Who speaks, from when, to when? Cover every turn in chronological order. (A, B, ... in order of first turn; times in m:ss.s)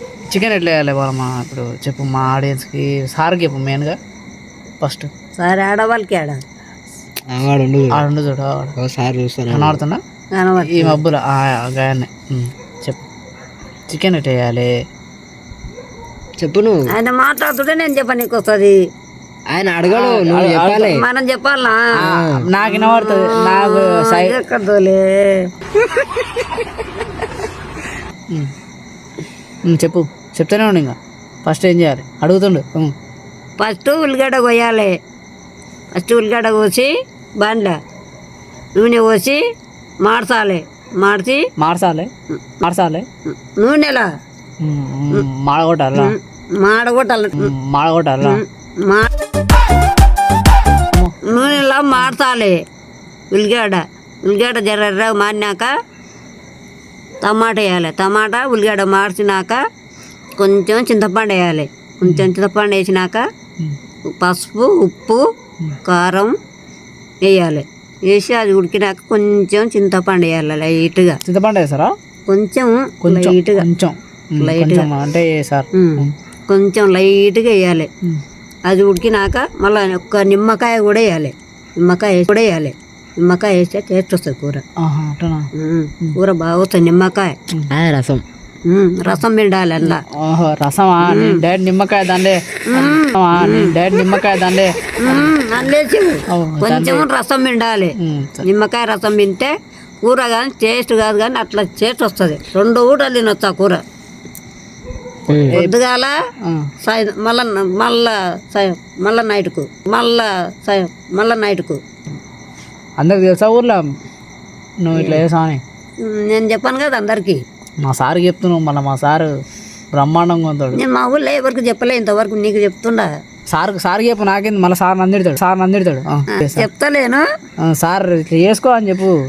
0:00.3-0:04.0 A
0:04.8-0:05.1 A
0:05.4-0:06.4 B
0:07.3-0:08.0 C
0:07.9-0:08.8 A
0:08.8-0:09.8 C
0:09.5-0:10.0 A
0:10.4-0:11.0 B
0:10.7-0:13.0 A
0:13.9-0:14.7 A
0:16.4-0:16.9 C
0:16.9-0:18.8 B
0:19.5-0:21.1 C
0:19.9-0:20.9 A
0:20.8-0:22.1 B
0:22.0-0:24.4 A
0:22.0-0:22.5 C
0:22.6-0:25.5 B
0:29.7-0:32.9 A
0:33.6-0:34.9 B
0:35.9-0:37.8 B
0:38.8-0:39.4 B
0:40.0-0:41.5 B
0:41.6-0:42.1 A
0:42.6-0:43.1 A
0:43.3-0:44.0 B
0:44.6-0:46.1 A
0:46.0-0:47.5 B
0:47.4-0:48.4 A
0:48.2-0:49.1 B
0:50.9-0:51.2 A
0:51.3-0:52.6 B
0:53.3-0:55.7 B
0:57.2-0:59.6 B
1:00.4-1:03.2 B
1:04.2-1:05.2 B
1:05.8-1:06.3 B
1:07.2-1:11.2 B
1:11.2-1:12.0 A
1:12.3-1:13.7 B
1:13.0-1:16.1 A
1:14.4-1:14.9 B
1:15.7-1:17.9 B
1:18.7-1:24.6 B
1:24.8-1:25.5 A
1:25.6-1:27.4 B
1:27.7-1:28.2 C
1:28.7-1:30.0 B
1:29.8-1:35.3 A
1:31.0-1:31.4 B
1:32.7-1:33.8 B
1:35.0-1:43.8 B
1:36.3-1:37.1 A
1:38.0-1:38.5 A
1:45.3-1:45.6 C
1:45.5-1:45.7 A
1:45.5-1:46.2 B
1:46.4-1:46.7 A
1:46.8-1:51.8 B
1:53.0-1:53.8 A
1:54.8-1:55.6 A
1:54.9-1:55.2 B
1:56.0-1:57.4 B
1:57.8-1:59.4 A
1:59.9-2:00.8 A
2:00.8-2:03.1 B
2:03.5-2:06.7 A
2:06.4-2:07.2 B
2:07.6-2:09.2 A